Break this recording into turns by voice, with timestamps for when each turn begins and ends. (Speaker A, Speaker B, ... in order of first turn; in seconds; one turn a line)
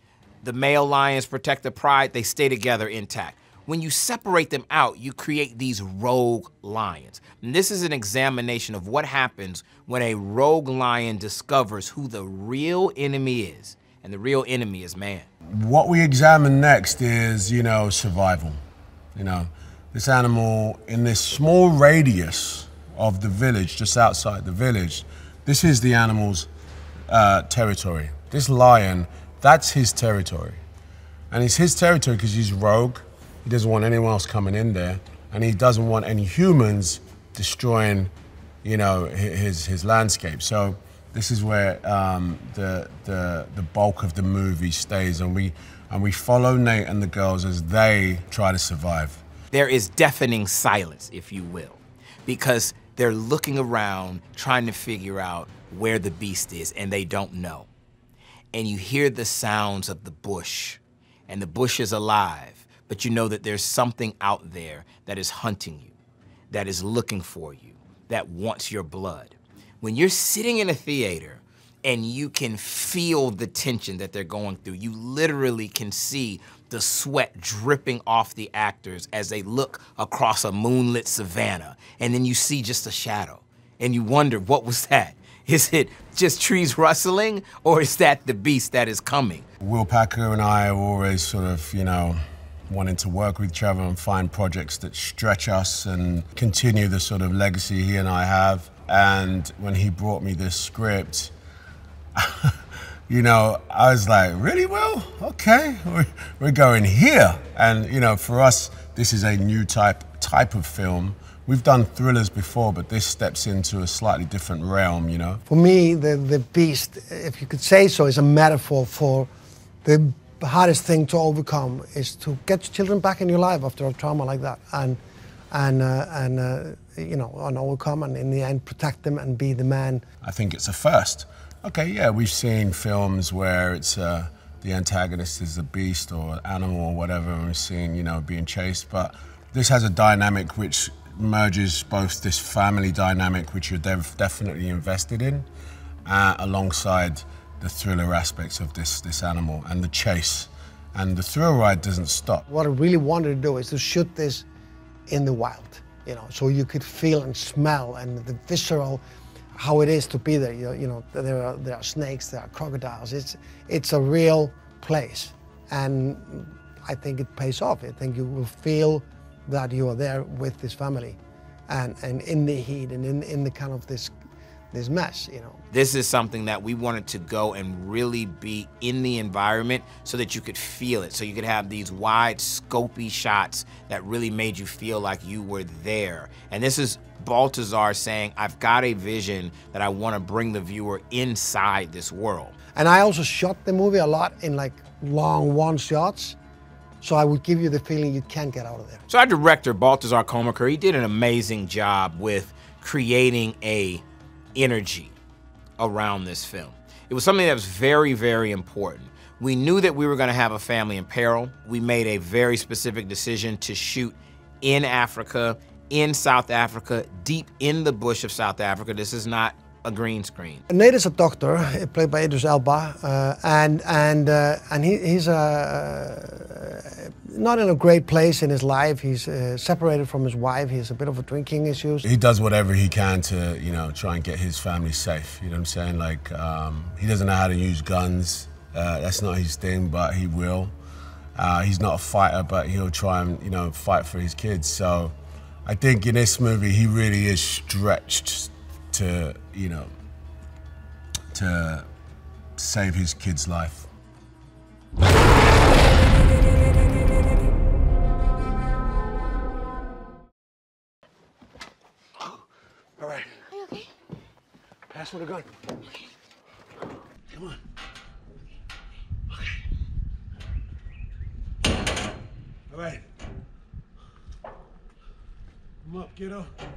Speaker A: 0.4-15.3
Speaker B: 15.5-18.6
Speaker B: 19.1-26.5
Speaker B: 27.1-30.6
Speaker B: 31.3-38.1
Speaker B: 38.6-49.2
Speaker A: 49.5-57.7
Speaker A: 58.5-65.9
Speaker A: 66.5-89.5
Speaker B: 89.6-101.3
Speaker B: 102.2-115.4
Speaker C: 115.5-119.3
Speaker C: 119.8-125.0
Speaker C: 125.5-130.1
Speaker B: 130.2-145.5
Speaker B: 146.1-152.4
Speaker C: 152.5-154.5
Speaker C: 155.1-159.0
Speaker C: 159.6-174.1
Speaker C: 174.7-175.6
Speaker A: 175.7-192.5
Speaker C: 192.8-196.4
Speaker C: 197.0-199.0
Speaker A: 199.1-204.0
Speaker A: 204.6-205.2
Speaker A: 205.8-220.6
Speaker C: 220.7-232.1
Speaker B: 232.0-240.7
Speaker B: 241.4-249.9
Speaker B: 251.3-251.9
Speaker B: 252.6-253.9
Speaker B: 263.0-263.6
Speaker B: 264.9-265.5
Speaker B: 267.3-267.6
Speaker B: 272.7-273.1
Speaker B: 275.9-276.5